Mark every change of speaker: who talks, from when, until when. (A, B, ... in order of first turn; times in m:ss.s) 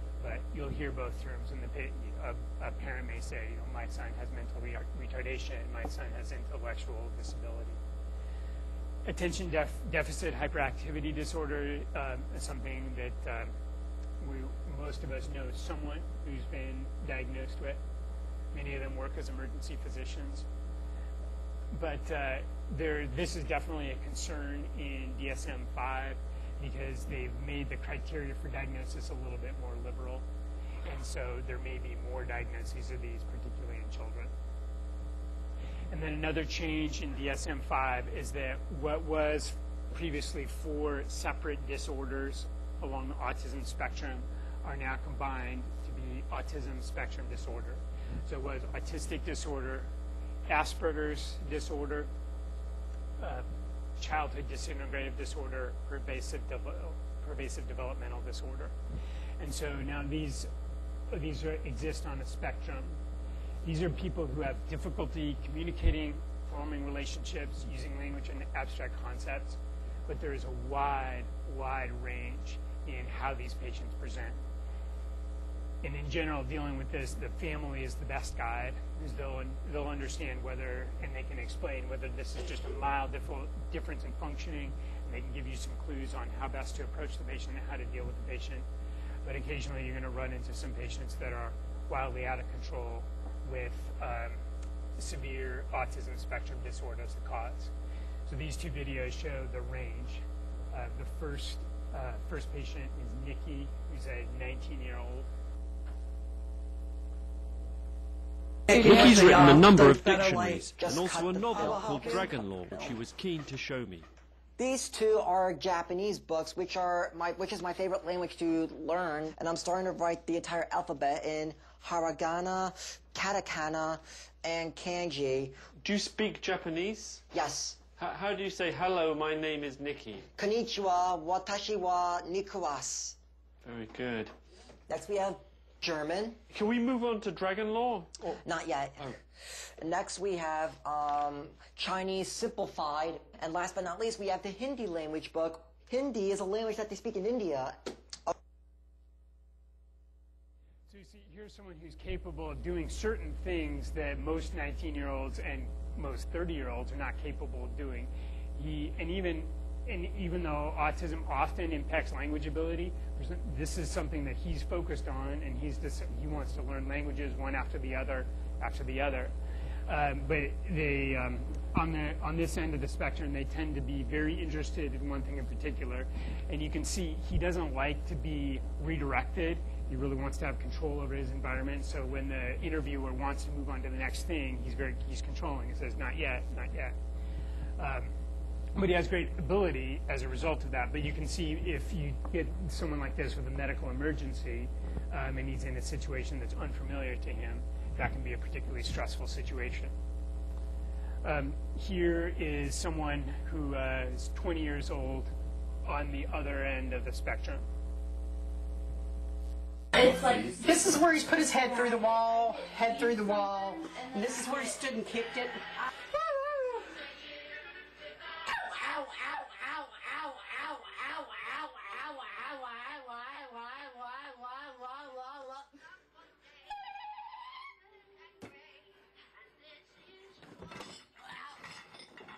0:00.2-0:07.8 A
0:09.0-0:13.5 A
0:14.2-0:17.8 A
0:18.5-0:20.5 A
0:21.7-0:30.2 A
0:30.8-0:34.3 A
0:35.9-0:49.9 A
0:50.5-0:52.1 A
0:53.2-0:53.4 A
0:54.0-0:58.7 A
0:59.4-1:00.5 A
1:01.1-1:03.0 A
1:03.6-1:14.4 A
1:15.8-1:28.7 A
1:29.2-1:34.4 A
1:35.0-1:37.7 A
1:38.3-1:45.3 A
1:48.7-1:52.9 B
1:48.8-1:54.0 C
1:49.5-1:49.8 D
1:54.6-2:05.5 B
2:05.8-2:07.2 D
2:07.3-2:07.8 B
2:07.9-2:10.3 D
2:10.3-2:13.2 B
2:13.6-2:14.3 D
2:14.9-2:16.4 B
2:16.5-2:18.3 D
2:18.4-2:19.2 B
2:19.8-2:27.8 B
2:30.9-2:49.3 A
2:49.9-3:07.0 A
3:07.8-3:08.1 A
3:08.7-3:19.9 A
3:21.2-3:25.3 A
3:25.8-3:27.6 A
3:29.9-3:35.6 E